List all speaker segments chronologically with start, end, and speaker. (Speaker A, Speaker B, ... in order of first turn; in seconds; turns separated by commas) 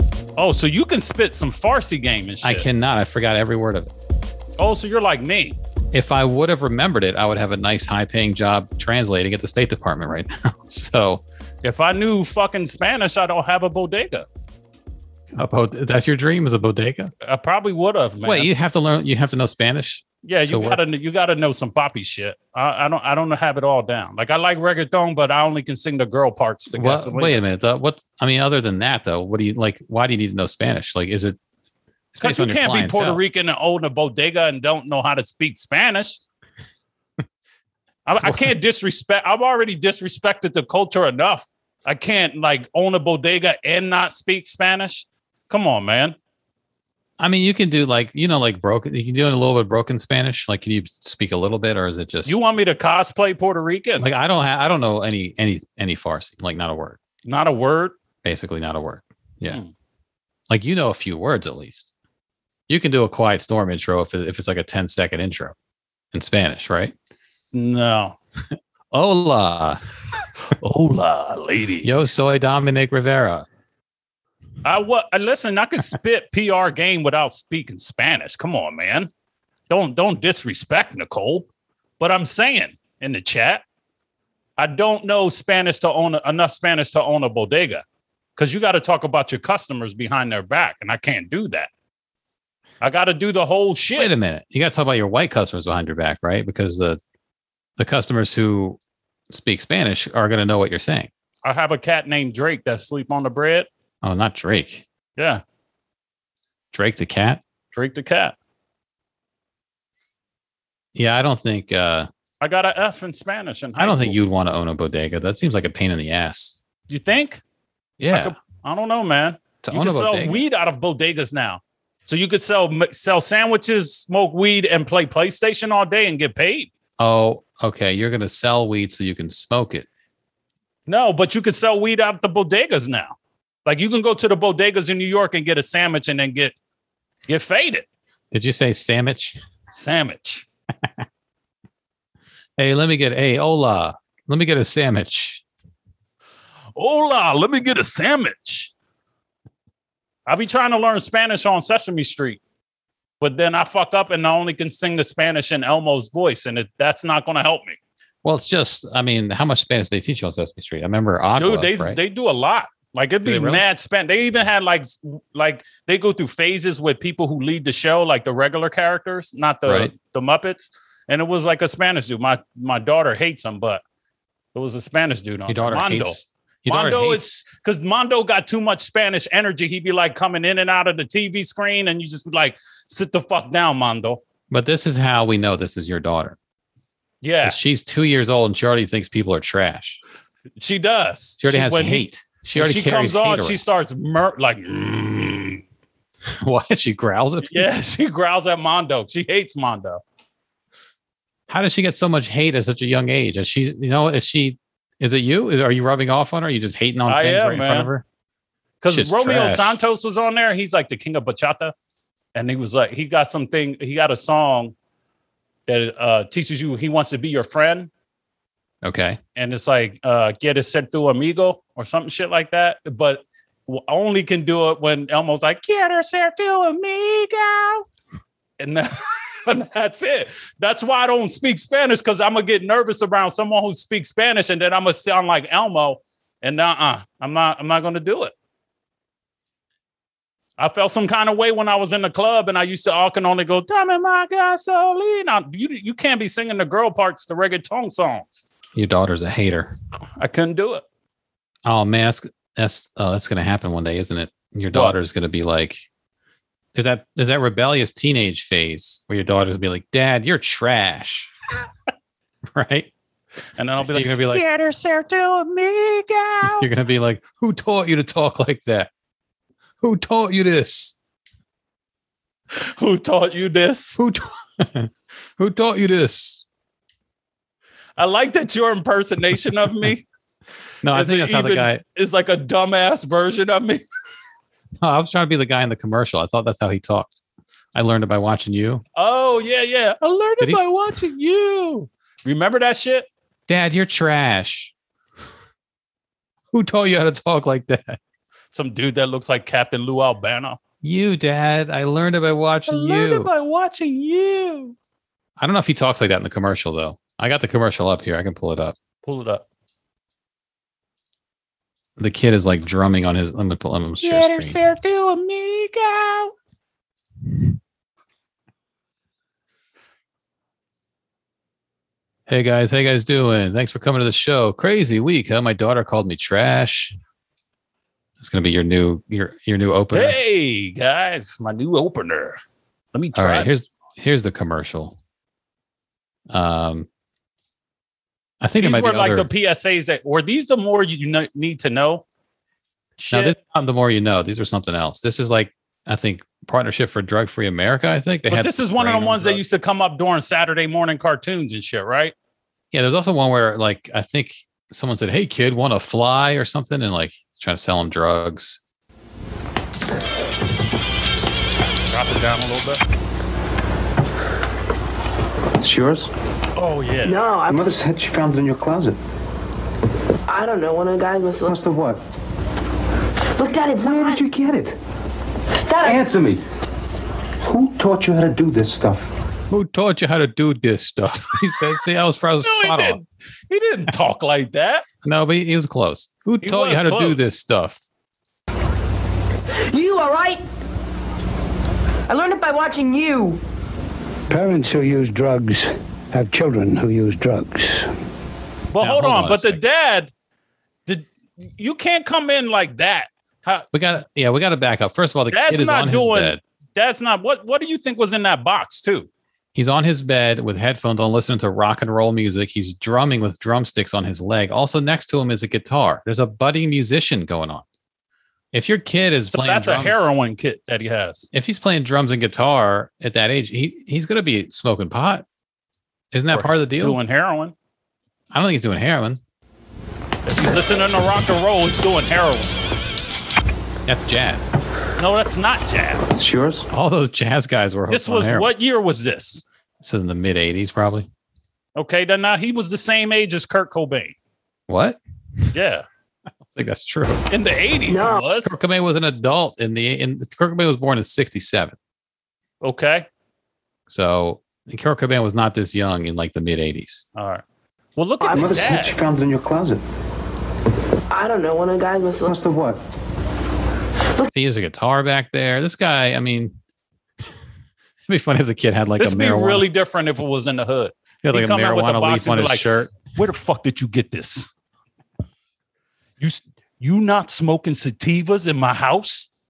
Speaker A: 0.4-2.7, Speaker B: 2.4-3.9, Speaker A: 4.6-5.6, Speaker B: 5.9-11.2, Speaker A: 11.6-14.3, Speaker B: 15.3-17.1, Speaker A: 17.2-18.5, Speaker B: 18.2-20.8, Speaker A: 20.2-27.4, Speaker B: 26.8-31.4, Speaker B: 32.1-33.2, Speaker A: 32.2-36.2, Speaker A: 38.1-46.1, Speaker B: 38.2-38.5, Speaker B: 47.2-52.4, Speaker A: 52.3-54.1, Speaker B: 54.0-57.0, Speaker A: 57.2-58.0, Speaker B: 58.2-59.6, Speaker B: 60.5-61.9, Speaker B: 62.7-65.5, Speaker B: 66.1-66.9, Speaker A: 67.5-68.2, Speaker B: 68.9-69.8, Speaker A: 70.6-71.9, Speaker B: 71.8-73.5, Speaker A: 74.6-79.1, Speaker A: 79.7-81.5, Speaker A: 82.0-83.6, Speaker A: 84.6-87.8, Speaker A: 88.4-91.7, Speaker A: 92.8-94.1, Speaker B: 94.0-97.0, Speaker B: 97.8-98.8, Speaker B: 99.3-101.1, Speaker A: 101.5-103.7, Speaker B: 104.0-104.8, Speaker A: 105.2-105.4, Speaker B: 106.7-107.4, Speaker A: 107.7-108.4, Speaker B: 111.0-112.1, Speaker A: 112.4-114.2, Speaker B: 113.8-116.6, Speaker A: 116.9-117.4, Speaker B: 118.0-118.3, Speaker A: 118.1-126.7, Speaker B: 119.6-120.4, Speaker B: 127.0-129.9, Speaker A: 130.9-136.6, Speaker A: 137.3-137.9, Speaker B: 138.3-139.4, Speaker A: 139.7-140.5, Speaker B: 142.6-145.4, Speaker A: 146.8-148.7, Speaker A: 150.3-152.4, Speaker A: 153.2-157.8, Speaker B: 158.2-162.0, Speaker A: 161.4-173.8, Speaker B: 163.2-163.6, Speaker B: 169.7-169.9, Speaker A: 174.5-184.2, Speaker B: 175.5-177.4, Speaker B: 184.5-186.4, Speaker A: 187.2-187.6, Speaker B: 187.4-190.0, Speaker A: 190.6-195.6, Speaker B: 191.4-193.6, Speaker B: 196.4-197.7, Speaker A: 197.4-200.0, Speaker B: 201.5-208.0, Speaker A: 207.1-207.9, Speaker A: 208.8-211.7, Speaker B: 208.9-209.8, Speaker A: 212.3-214.8, Speaker A: 215.7-217.9, Speaker B: 218.8-219.2, Speaker A: 219.4-227.9, Speaker A: 228.6-238.3, Speaker A: 240.6-248.4, Speaker B: 248.7-249.7, Speaker A: 250.2-250.8, Speaker B: 251.7-255.8, Speaker B: 256.8-261.3, Speaker B: 262.5-262.9, Speaker A: 263.6-266.7, Speaker B: 263.9-264.4, Speaker B: 266.4-268.9, Speaker B: 269.8-271.0, Speaker A: 272.5-274.0, Speaker B: 274.0-276.4, Speaker A: 278.0-280.1, Speaker B: 280.8-281.8, Speaker A: 280.9-283.8, Speaker B: 284.8-287.2, Speaker B: 287.8-288.8, Speaker A: 289.0-293.1, Speaker B: 293.5-294.7, Speaker B: 296.5-298.0, Speaker A: 298.5-300.6, Speaker B: 300.8-303.3, Speaker A: 302.7-304.8, Speaker B: 305.4-308.8, Speaker A: 309.1-309.4, Speaker B: 312.0-314.6, Speaker A: 314.0-316.3, Speaker B: 322.3-326.9, Speaker B: 328.2-330.2, Speaker A: 329.9-332.4, Speaker A: 332.9-333.5, Speaker B: 333.1-334.9, Speaker B: 336.3-336.9, Speaker B: 338.4-339.3, Speaker A: 338.6-342.0, Speaker A: 343.0-343.4, Speaker B: 343.1-349.4, Speaker A: 348.3-352.1, Speaker B: 352.7-358.6, Speaker A: 361.9-362.8, Speaker C: 365.6-366.1, Speaker A: 366.6-367.2, Speaker D: 367.1-367.8, Speaker C: 367.5-369.0, Speaker D: 370.3-371.6, Speaker C: 371.4-372.0, Speaker D: 373.4-374.2, Speaker C: 373.8-374.8, Speaker D: 375.6-376.1, Speaker C: 375.8-376.4, Speaker C: 377.4-379.1, Speaker B: 379.5-383.0, Speaker A: 382.4-384.9, Speaker B: 385.0-387.8, Speaker A: 386.4-387.3, Speaker D: 389.5-390.4, Speaker D: 392.1-393.4, Speaker E: 394.3-397.9, Speaker A: 398.7-400.1, Speaker B: 398.8-399.6, Speaker A: 400.9-403.7, Speaker B: 403.7-406.4, Speaker A: 405.3-409.1, Speaker B: 409.6-417.6, Speaker B: 418.5-420.1, Speaker A: 419.3-421.3, Speaker B: 421.3-425.2, Speaker B: 426.1-427.0, Speaker A: 426.3-427.5, Speaker B: 428.3-429.2, Speaker A: 430.3-432.7, Speaker B: 433.9-434.6, Speaker A: 435.0-436.2, Speaker C: 436.2-436.7, Speaker B: 436.7-438.5, Speaker A: 437.9-439.4, Speaker B: 439.8-441.1, Speaker A: 441.8-444.2, Speaker B: 444.7-445.0, Speaker A: 445.5-445.9, Speaker B: 446.5-447.3, Speaker A: 447.3-448.6, Speaker D: 447.9-448.2, Speaker B: 448.4-451.8, Speaker A: 452.6-453.1, Speaker B: 453.9-457.1, Speaker A: 457.2-457.4, Speaker A: 458.0-459.0, Speaker D: 458.2-458.6, Speaker C: 458.3-459.8, Speaker D: 461.1-462.4, Speaker C: 462.2-462.8, Speaker B: 464.3-466.6, Speaker B: 468.1-469.6, Speaker A: 469.0-474.5, Speaker B: 471.2-473.0, Speaker A: 476.2-479.3